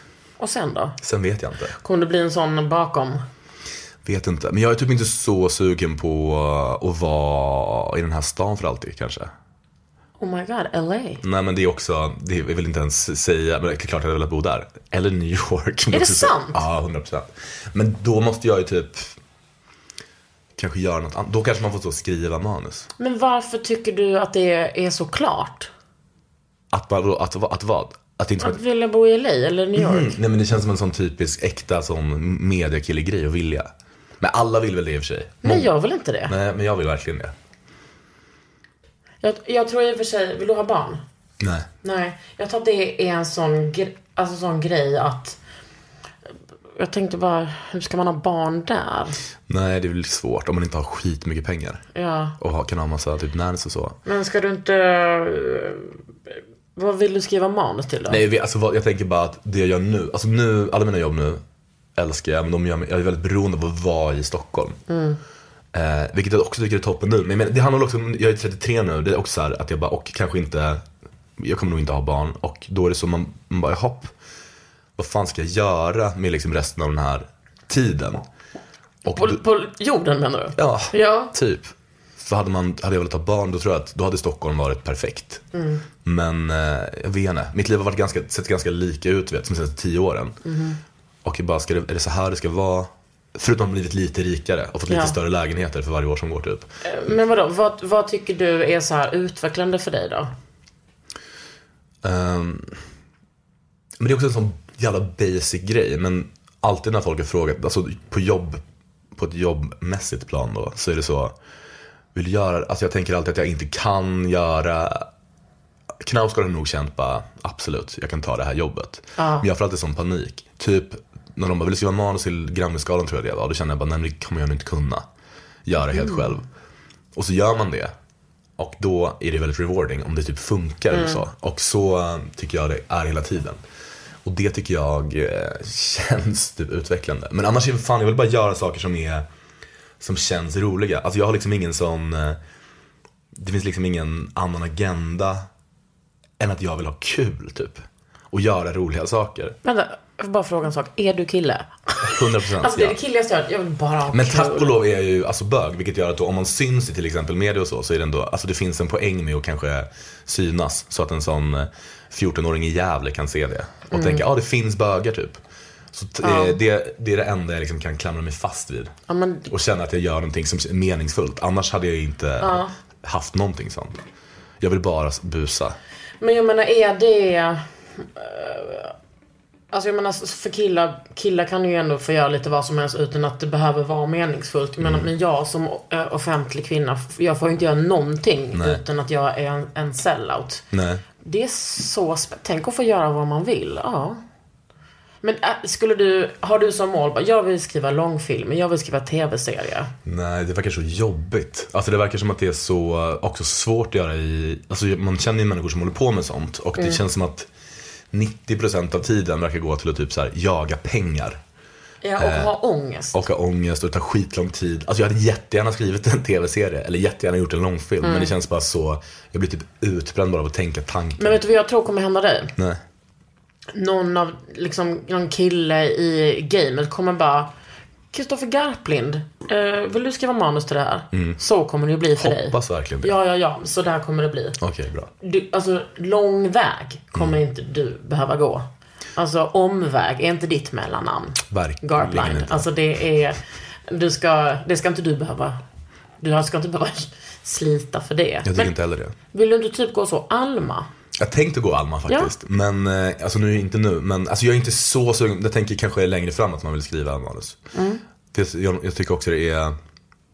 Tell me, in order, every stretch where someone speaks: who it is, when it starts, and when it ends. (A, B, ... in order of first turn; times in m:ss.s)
0:00.4-0:01.0 A
0:01.0-0:01.8 B
0:01.8-0:03.2 A
0:04.0-0:09.3 B
0:10.2-0:11.2 A
0:11.2-0:19.2 B
0:15.9-0:16.6 A
0:20.6-0:22.9 B
0:23.0-0:25.7 A
0:26.7-0:28.6 B
0:28.4-0:30.2 A
0:29.8-0:35.7 B
0:35.4-0:36.4 A
0:36.3-0:37.3 B
0:39.2-0:41.0 A
0:41.4-0:41.7 B
0:41.8-0:45.4 A
0:46.8-0:49.2 A
0:49.5-0:51.8 B
0:51.9-0:52.4 A
0:52.4-0:54.0 B
0:54.0-0:56.0 A
0:56.8-0:58.2 A
0:58.1-1:01.4 B
1:02.0-1:04.8 B
1:04.9-1:05.2 A
1:05.7-1:10.8 B
1:11.4-1:14.1 B
1:15.0-1:18.3 B
1:19.0-1:19.4 B
1:19.1-1:21.3 A
1:20.6-1:25.4 B
1:25.5-1:25.8 A
1:26.0-1:30.4 B
1:30.4-1:30.8 A
1:31.2-1:36.7 B
1:34.9-1:35.2 A
1:36.8-1:40.3 A
1:42.0-1:42.8 B
1:44.0-1:48.6 B
1:49.2-1:51.4 B
1:52.1-1:55.1 B
1:56.0-2:05.1 B
1:59.2-1:59.5 A
2:05.7-2:06.4 B
2:05.9-2:06.4 A
2:07.1-2:07.9 B
2:08.6-2:13.6 B
2:10.9-2:11.2 A
2:14.2-2:19.3 B
2:20.0-2:22.4 B
2:23.4-2:25.5 B
2:26.4-2:29.6 B
2:29.6-2:34.8 A
2:32.0-2:33.0 B
2:34.1-2:45.4 B
2:43.9-2:44.3 A
2:45.9-2:48.9 B
2:46.2-2:46.6 A
2:49.1-2:49.5 A
2:49.5-2:54.0 B
2:52.4-2:52.7 A
2:54.6-2:55.8 B
2:56.2-2:59.0 A
2:59.7-3:10.7 A
3:04.8-3:05.1 B
3:08.5-3:08.8 B
3:10.7-3:11.0 B
3:11.2-3:14.2 A
3:15.2-3:19.9 A
3:20.0-3:27.5 B
3:28.1-3:31.4 B
3:32.0-3:33.2 A
3:32.2-3:32.5 B
3:33.1-3:41.4 B
3:38.0-3:38.3 A
3:41.2-3:42.5 A
3:42.6-3:42.8 B
3:43.7-3:47.5 A
3:48.1-3:54.6 A
3:51.1-3:51.4 B
3:52.2-3:53.2 B
3:54.6-3:55.1 B
3:55.2-4:05.6 A
3:57.1-3:57.4 B
4:01.5-4:02.7 B
4:06.2-4:08.8 A
4:08.4-4:09.2 B
4:09.3-4:10.9 A
4:11.2-4:17.6 B
4:12.1-4:12.3 A
4:17.7-4:18.0 A
4:18.3-4:19.8 B